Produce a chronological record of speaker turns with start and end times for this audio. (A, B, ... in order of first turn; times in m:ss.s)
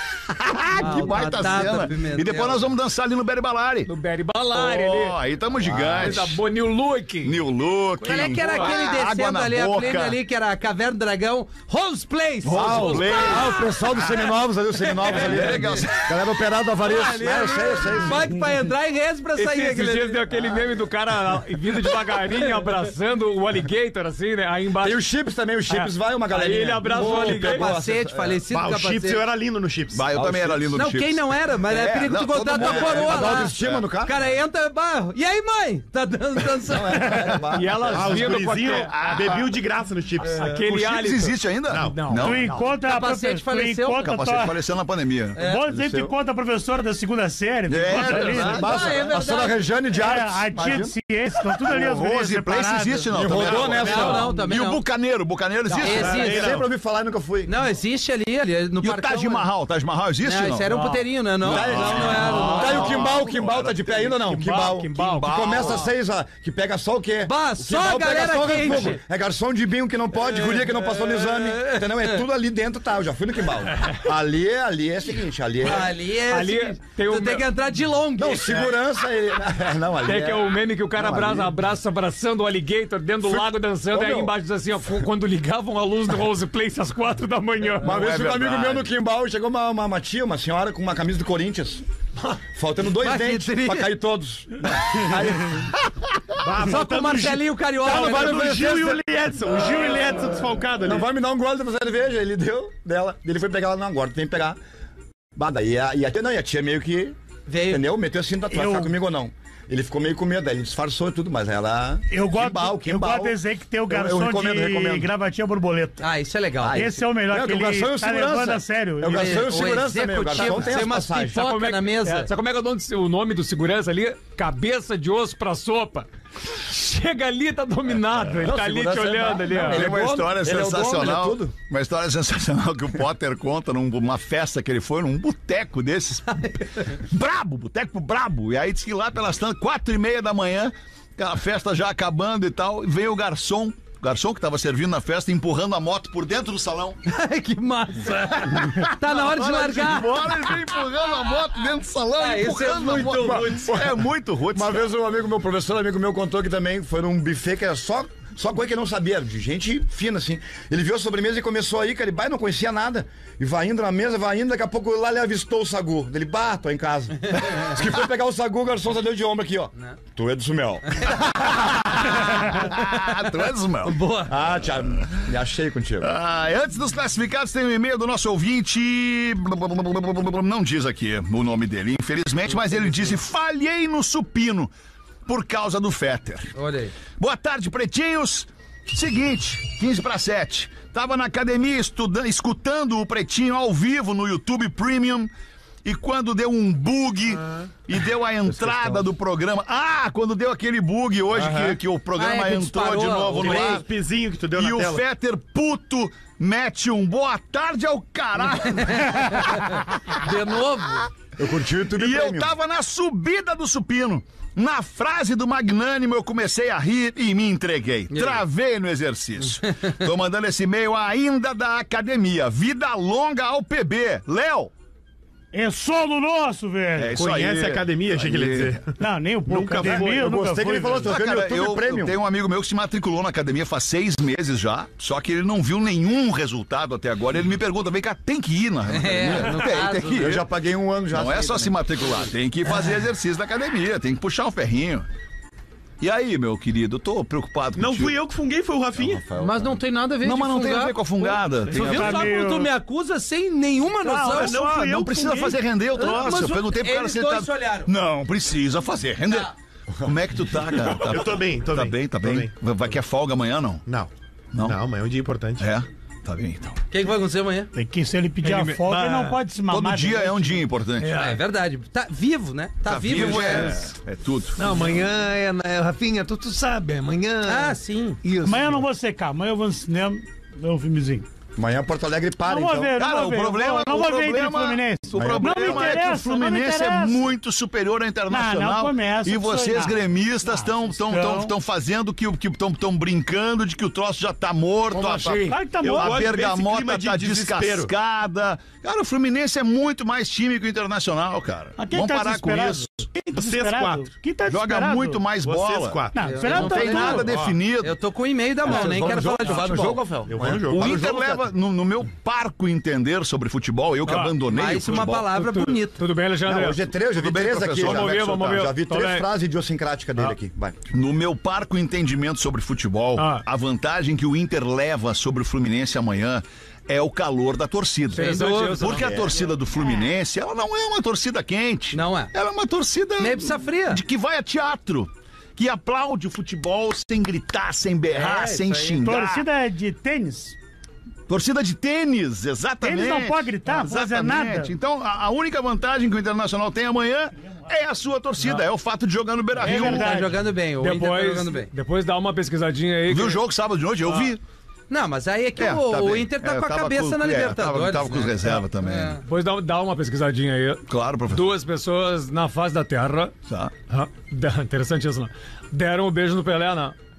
0:00.4-0:03.9 A
0:00.8-0:02.6 B
0:00.8-0:01.3 C
0:03.9-0:05.2 C
0:04.5-0:06.4 A
0:05.7-0:06.2 D
0:05.8-0:07.4 C
0:07.2-0:10.2 A
0:08.0-0:08.8 C
0:08.0-0:13.8 B
0:12.4-0:13.5 A
0:12.5-0:18.4 D
0:14.8-0:15.3 B
0:15.0-0:15.6 C
0:15.1-0:16.1 A
0:16.8-0:20.3 B
0:19.4-0:25.0 C
0:24.8-0:28.4 D
0:25.7-0:27.7 C
0:26.9-0:29.2 B
0:28.5-0:30.7 E
0:29.9-0:33.8 A
0:30.7-0:37.2 B
0:32.6-0:34.2 D
0:36.7-0:38.4 D
0:37.5-0:39.0 C
0:37.9-0:40.5 E
0:38.6-0:39.5 A
0:40.2-0:42.7 C
0:40.4-0:42.5 A
0:41.7-0:42.1 E
0:42.2-0:44.6 F
0:42.8-0:44.1 B
0:44.0-0:45.4 A
0:45.4-0:45.6 B
0:45.4-0:48.6 F
0:45.7-0:46.1 D
0:47.7-0:49.1 A
0:48.0-0:49.6 B
0:48.3-0:51.0 D
0:49.9-0:53.7 F
0:51.5-0:56.3 A
0:53.1-0:54.3 D
0:53.4-0:54.8 B
0:53.8-0:54.3 E
0:55.8-0:57.5 D
0:55.8-0:56.6 B
0:56.0-0:56.7 E
0:57.5-0:59.5 B
0:58.8-1:00.9 A
1:00.2-1:03.0 B
1:01.4-1:05.9 A
1:01.4-1:15.9 D
1:02.3-1:03.2 C
1:04.2-1:05.8 C
1:07.3-1:09.0 B
1:10.2-1:12.2 B
1:15.6-1:18.7 B
1:16.3-1:17.5 C
1:18.2-1:21.5 D
1:20.0-1:28.0 C
1:23.2-1:24.3 D
1:27.8-1:31.8 D
1:27.8-1:28.9 A
1:32.6-1:35.7 D
1:33.0-1:33.9 B
1:36.4-1:41.0 E
1:36.6-1:38.4 B
1:37.8-1:39.0 D
1:40.8-1:44.6 D
1:45.4-1:47.2 D
1:47.5-1:47.8 B
1:47.7-1:55.1 D
1:48.5-1:48.9 F
1:52.1-1:56.0 F
1:56.0-1:56.9 B
1:56.6-2:01.4 D
1:56.7-1:59.5 F
1:59.1-2:02.3 B
2:01.1-2:10.2 C
2:08.4-2:11.5 D
2:09.6-2:27.0 A
2:27.1-2:30.5 B
2:28.1-2:34.8 A
2:32.2-2:33.8 B
2:33.3-2:51.2 D
2:51.0-2:53.3 B
2:51.3-2:54.0 A
2:53.8-2:54.4 B
2:54.3-2:56.1 D
2:56.0-3:04.7 A
3:05.3-3:06.5 A
3:06.6-3:07.0 B
3:07.2-3:15.3 A
3:15.8-3:23.9 A
3:21.3-3:21.8 E
3:22.2-3:23.8 B
3:23.4-3:25.0 E
3:24.6-3:30.2 A
3:28.6-3:31.1 B
3:31.4-3:32.5 D
3:32.0-3:44.7 A
3:38.1-3:38.4 B
3:45.5-3:47.2 F
3:47.0-3:48.8 A
3:47.2-3:48.9 E
3:49.0-3:51.2 F
3:49.5-3:50.3 E
3:49.8-3:52.2 D
3:51.0-4:00.5 A
3:58.9-4:00.4 B
4:00.2-4:01.8 D
4:01.1-4:05.0 A
4:06.0-4:08.2 A
4:07.8-4:09.2 E
4:09.0-4:09.8 D
4:09.4-4:14.6 B
4:10.2-4:12.2 A
4:11.7-4:12.7 F
4:14.1-4:15.6 E
4:14.3-4:19.5 A
4:16.0-4:17.9 B
4:20.0-4:23.8 A
4:20.9-4:22.5 E
4:23.8-4:25.7 E
4:24.5-4:24.8 A
4:25.6-4:26.8 A
4:26.9-4:27.7 B
4:27.7-4:30.6 F
4:28.4-4:29.4 C
4:29.7-4:31.1 A
4:31.0-4:31.4 C
4:31.1-4:33.8 B
4:32.9-4:34.6 A
4:33.2-4:33.9 C
4:34.6-4:38.8 C
4:37.4-4:38.2 B
4:38.4-4:41.3 F
4:41.6-4:43.0 D
4:42.5-4:47.4 F
4:43.0-5:03.0 A
4:45.1-4:46.0 D
4:48.3-4:50.0 F
4:50.9-4:51.5 F
4:54.9-4:55.6 C
4:55.4-4:56.3 F
4:55.8-4:57.9 E
5:01.8-5:05.2 F
5:03.3-5:04.1 E
5:04.5-5:08.0 A
5:05.4-5:07.6 E
5:06.1-5:07.4 F
5:06.2-5:07.3 B
5:07.8-5:10.0 B
5:08.6-5:11.5 D
5:10.3-5:11.0 E
5:10.7-5:15.3 A
5:14.1-5:14.4 C
5:14.5-5:16.0 B
5:15.3-5:16.8 C
5:16.4-5:20.8 D
5:17.2-5:18.7 A
5:17.7-5:19.3 C
5:20.9-5:39.5 A
5:23.2-5:23.4 C
5:28.1-5:29.3 C
5:28.2-5:29.0 B
5:31.9-5:32.3 B
5:33.2-5:34.0 B
5:38.1-5:39.0 B
5:39.0-5:40.6 F
5:41.3-5:50.2 A
5:42.8-5:44.7 F
5:49.6-5:50.4 F
5:49.6-5:51.7 B
5:50.8-5:53.4 C
5:53.1-5:54.4 A
5:54.9-5:59.2 B
5:55.6-5:59.2 A
5:59.2-6:03.3 C
6:00.9-6:01.5 A
6:03.5-6:03.8 A
6:03.9-6:07.0 C